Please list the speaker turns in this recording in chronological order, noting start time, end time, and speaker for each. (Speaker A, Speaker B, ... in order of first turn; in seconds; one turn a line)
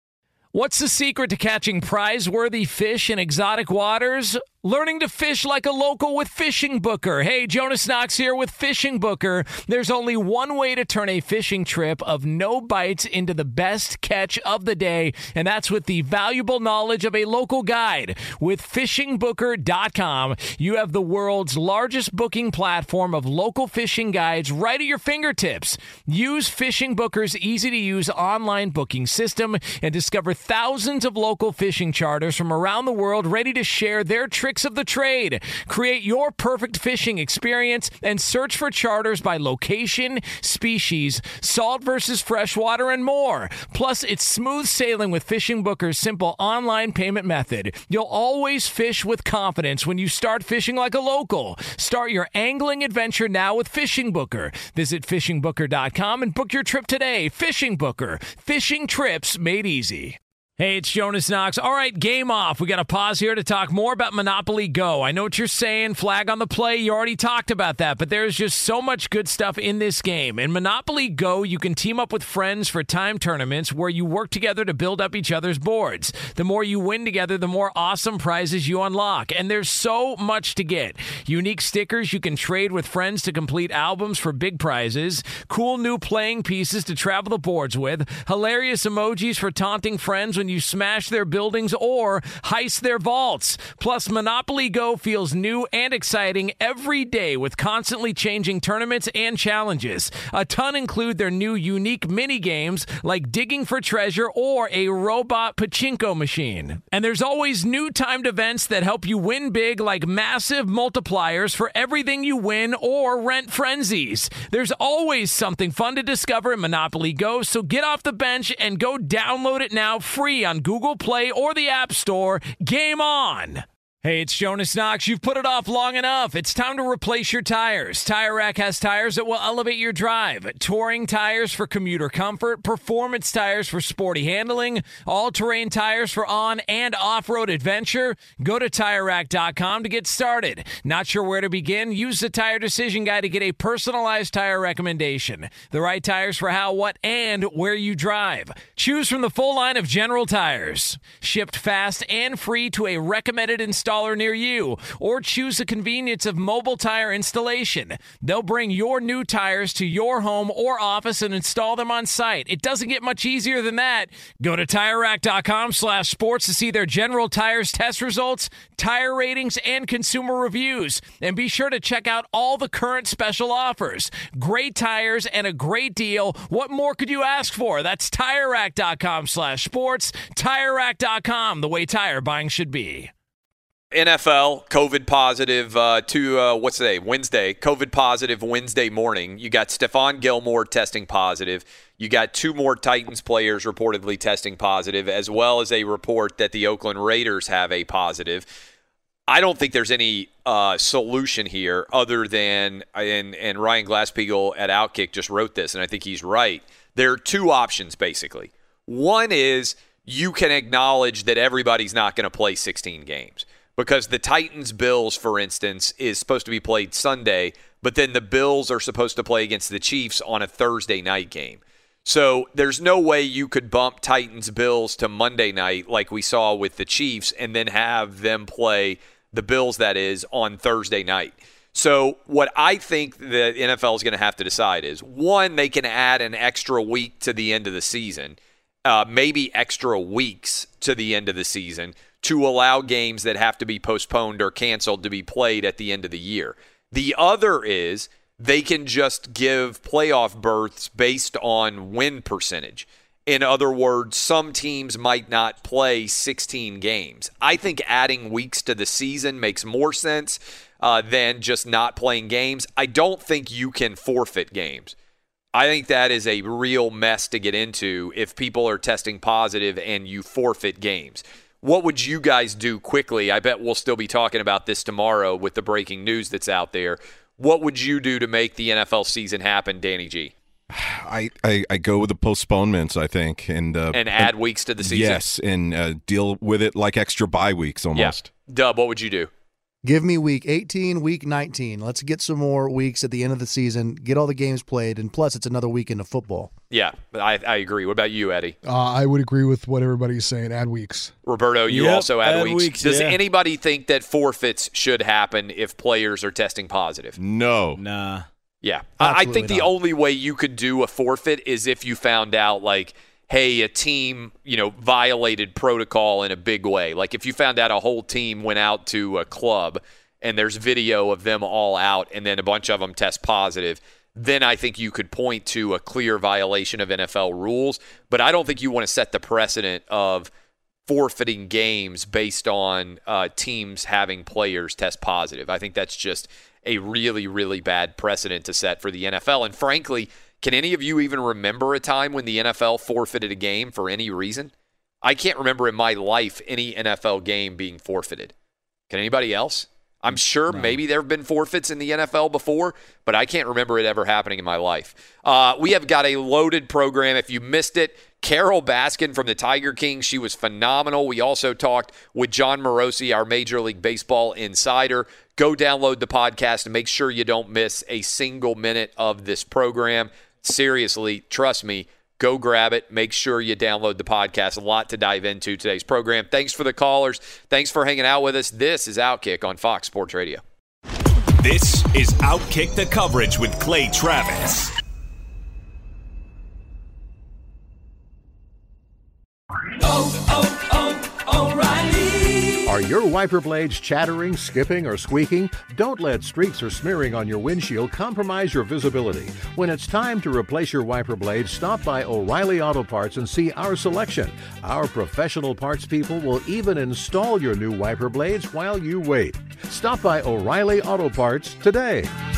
Speaker A: 0.5-183.1
Speaker B: 183.9-198.4
Speaker B: 199.3-264.9
Speaker B: 265.5-280.3
Speaker C: 280.7-288.3
Speaker B: 283.9-285.2
Speaker B: 287.9-289.3
Speaker D: 289.8-296.5
Speaker B: 296.7-298.6
Speaker E: 298.6-301.1
Speaker B: 301.2-307.1
Speaker F: 301.7-303.2
Speaker C: 307.1-307.8
Speaker F: 307.8-308.2
Speaker B: 308.6-330.3
Speaker D: 309.0-309.7
Speaker B: 330.9-344.5
Speaker B: 345.0-348.3
Speaker B: 348.9-380.4
Speaker F: 350.5-350.8
Speaker G: 381.4-384.7
Speaker H: 389.7-392.7
Speaker I: 392.6-412.1